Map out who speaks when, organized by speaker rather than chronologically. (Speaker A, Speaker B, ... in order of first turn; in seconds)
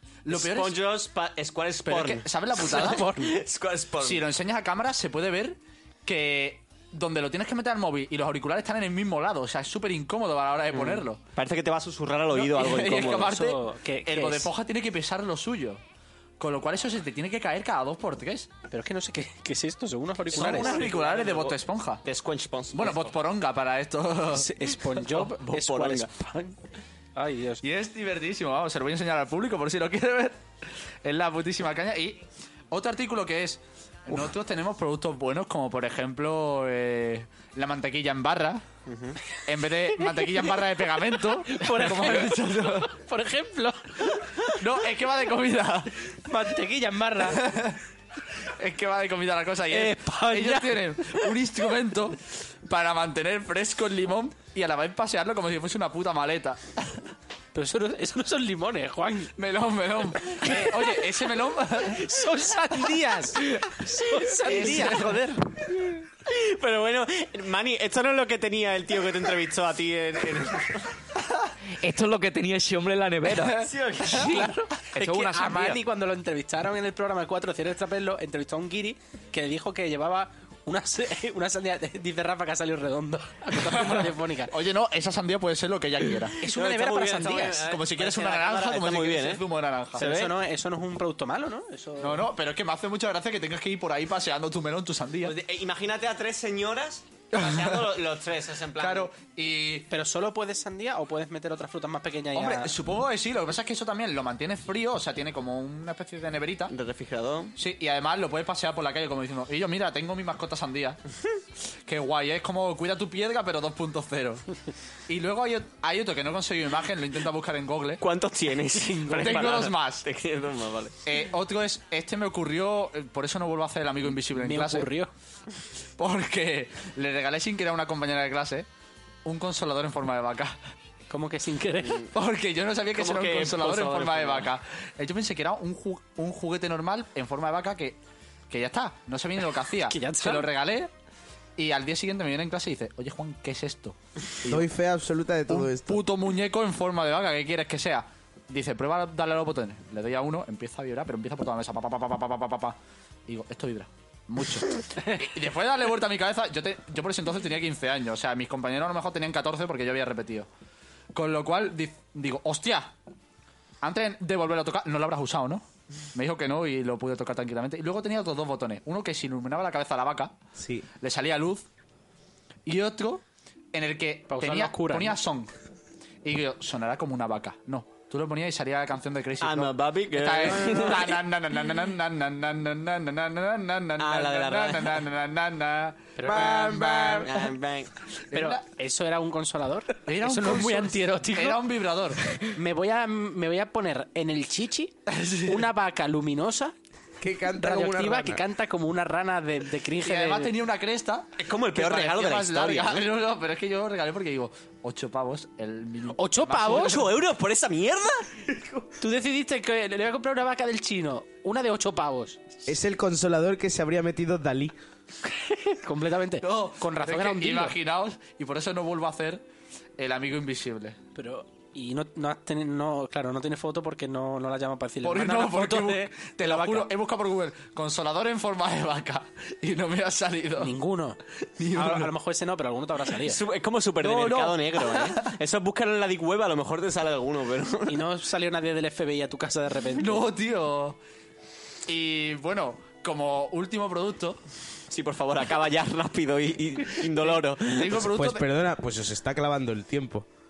Speaker A: 0.2-0.8, 1.8-3.1, 4.0-11.2, 12.3-15.8, 16.4-18.5, 20.3-22.0, 22.7-25.3, 27.6-30.4, 31.0-38.6, 39.5-42.9, 44.5-45.9, 47.3-47.8, 48.6-56.6, 59.4-62.1, 64.5-65.4, 73.3-75.8, 83.8-86.4, 87.6-90.1, 92.0-95.3, 97.4-98.0, 98.8-99.9, 102.3-106.7, 107.6-111.0, 111.9-114.4, 115.1-118.0, 119.1-120.0, 121.0-124.9, 126.0-128.7, 129.2-130.6, 132.1-138.0, 138.5-140.9, 141.6-144.7, 145.5-152.8, 153.3-160.5, 161.1-162.9, 163.8-165.6, 166.1-170.3, 171.0-171.6, 172.7-175.5, 176.2-187.4, 188.3-188.6, 190.1-192.2, 195.1-195.6, 200.0-207.1, 216.4-219.4, 220.0-221.0, 225.0-230.7, 231.6-232.1, 234.0-235.3, 240.0-241.0, 241.9-244.4, 247.2-248.4
Speaker B: 0.3-4.2, 10.7-13.3, 20.3-23.1, 25.4-26.1, 38.9-39.2, 66.2-70.9, 73.7-74.5, 86.4-89.4, 89.9-90.4, 95.2-99.1, 106.7-107.5, 118.0-121.0, 132.9-134.5, 179.4-181.2, 184.0-185.0, 187.2-187.9, 201.4-203.1, 206.7-208.4, 233.2-238.0, 244.9-248.1
Speaker C: 2.7-3.4, 12.8-14.5, 18.7-20.9, 24.3-26.6, 27.1-27.6, 40.0-44.5, 46.2-47.5, 49.7-51.2, 57.5-59.3, 60.3-61.1, 61.8-65.4, 74.0-84.5, 86.4-87.7, 90.0-92.3, 99.9-102.7, 118.7-119.5, 124.3-125.1, 131.1-132.1, 139.7-140.5, 174.3-175.2, 186.2-186.7, 188.3-191.6, 192.5-194.9, 195.4-196.7, 197.6-200.5, 206.1-207.0, 209.0-212.4, 215.3-217.8, 221.1-226.9, 230.6-231.2, 231.7-233.4, 237.9-240.3
Speaker D: 71.8-73.7, 75.0-75.3
Speaker E: 144.4-146.0, 170.6-170.9, 186.2-187.3, 197.2-198.4, 212.7-214.7, 248.0-250.2